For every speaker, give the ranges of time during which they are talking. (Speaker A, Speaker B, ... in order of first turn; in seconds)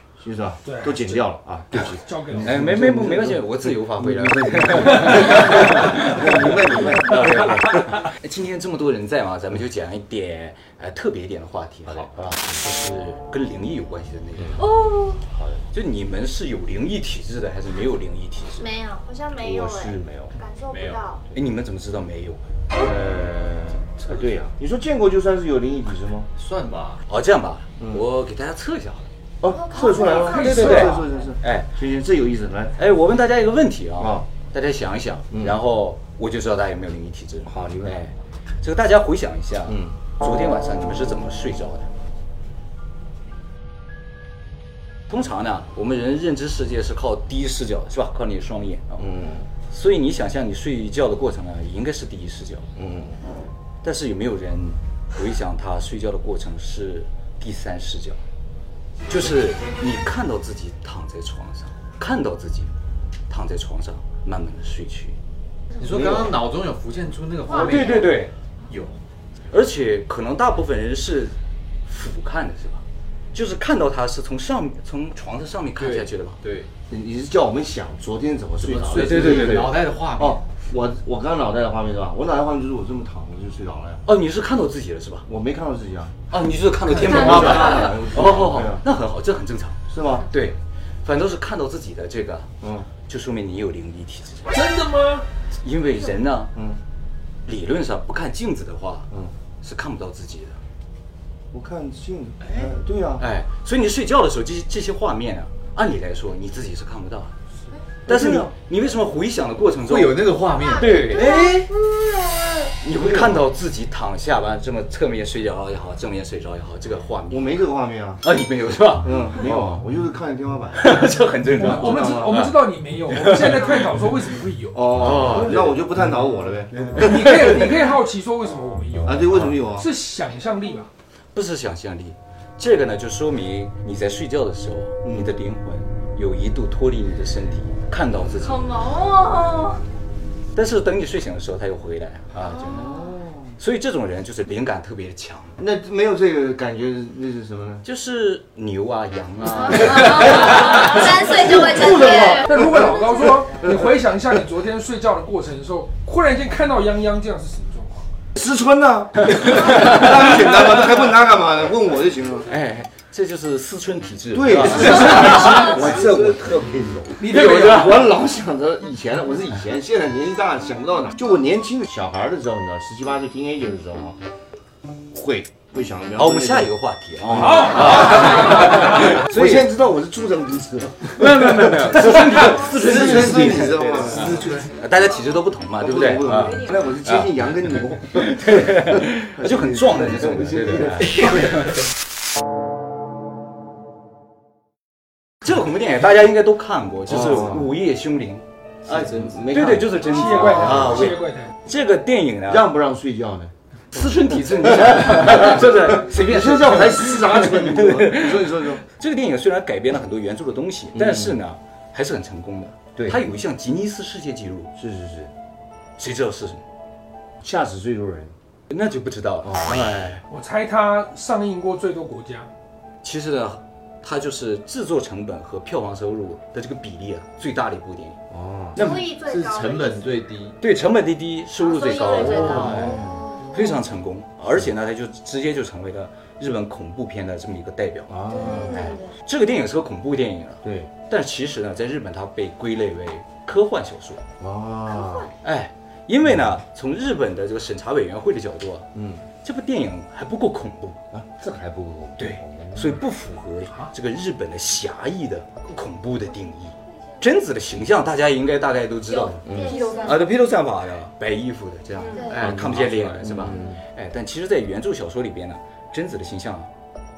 Speaker A: 0.2-7.9, 11.9-12.6, 15.2-15.7, 19.4-20.4, 22.7-26.3, 29.4-32.8, 34.0-34.3, 37.5-38.0, 39.7-39.9, 49.0-49.5, 52.8-53.3, 76.9-84.0, 85.3-86.2, 86.9-88.8, 89.9-90.3, 92.6-92.9, 96.5-96.8, 101.5-103.2, 108.1-108.5, 112.8-113.5, 117.3-118.2, 119.0-122.4, 124.7-127.7, 129.0-129.9, 142.5-143.6, 145.6-147.8, 151.3-153.9, 158.3-162.5, 164.3-174.2, 175.1-176.7, 177.2-184.7, 185.8-191.5, 197.1-197.7, 198.8-201.2, 202.5-203.5, 204.7-208.8, 210.9-211.3, 212.9-213.2, 214.8-215.3, 217.4-218.3, 219.4-220.2, 228.3-228.9, 232.1-233.4, 238.1-238.8, 240.6-240.9, 244.4-245.3, 248.9-249.2, 251.1-253.0, 259.4-259.9, 262.4-263.8
Speaker B: 0.6-1.2, 1.8-2.6, 94.5-95.3, 121.6-125.3, 126.9-130.9, 151.5-158.1, 167.2-168.0, 177.7-178.3, 200.0-201.5, 220.3-222.5
Speaker C: 2.4-14.7, 15.7-18.7, 20.7-22.4, 27.1-29.1, 30.2-31.7, 32.8-41.9, 45.1-52.7, 53.8-58.2, 59.1-62.7, 63.3-65.2, 67.5-68.3, 69.5-76.4, 79.0-79.7, 84.0-85.3, 86.3-89.8, 90.3-92.5, 93.0-94.6, 95.6-96.5, 97.5-99.1, 99.6-100.6, 103.2-107.3, 108.0-111.7, 112.8-117.6, 118.2-119.8, 120.8-122.5, 123.1-123.6, 125.0-125.7, 131.3-138.7, 140.5-143.0, 143.6-145.6, 147.8-151.5, 162.5-166.0, 167.2-168.0, 176.2-179.7, 181.1-191.8, 195.4-198.4, 199.5-202.7, 203.9-214.7, 216.0-216.6, 218.7-220.2, 223.0-228.2, 230.6-244.2, 245.4-248.9, 249.4-251.0, 252.2-266.7
Speaker D: 14.6-15.2, 18.6-21.2, 29.4-30.9, 87.1-87.8, 110.5-112.6, 138.4-139.9, 142.4-143.0, 149.7-152.4, 182.4-183.3, 228.8-230.2, 231.6-233.6, 238.3-239.1, 244.9-245.3, 259.1-260.2, 262.1-262.4
Speaker E: 26.4-27.0, 65.8-68.9, 75.8-76.7, 78.6-80.4, 87.3-87.7, 109.8-111.1, 184.4-184.6, 198.9-199.3, 228.8-230.6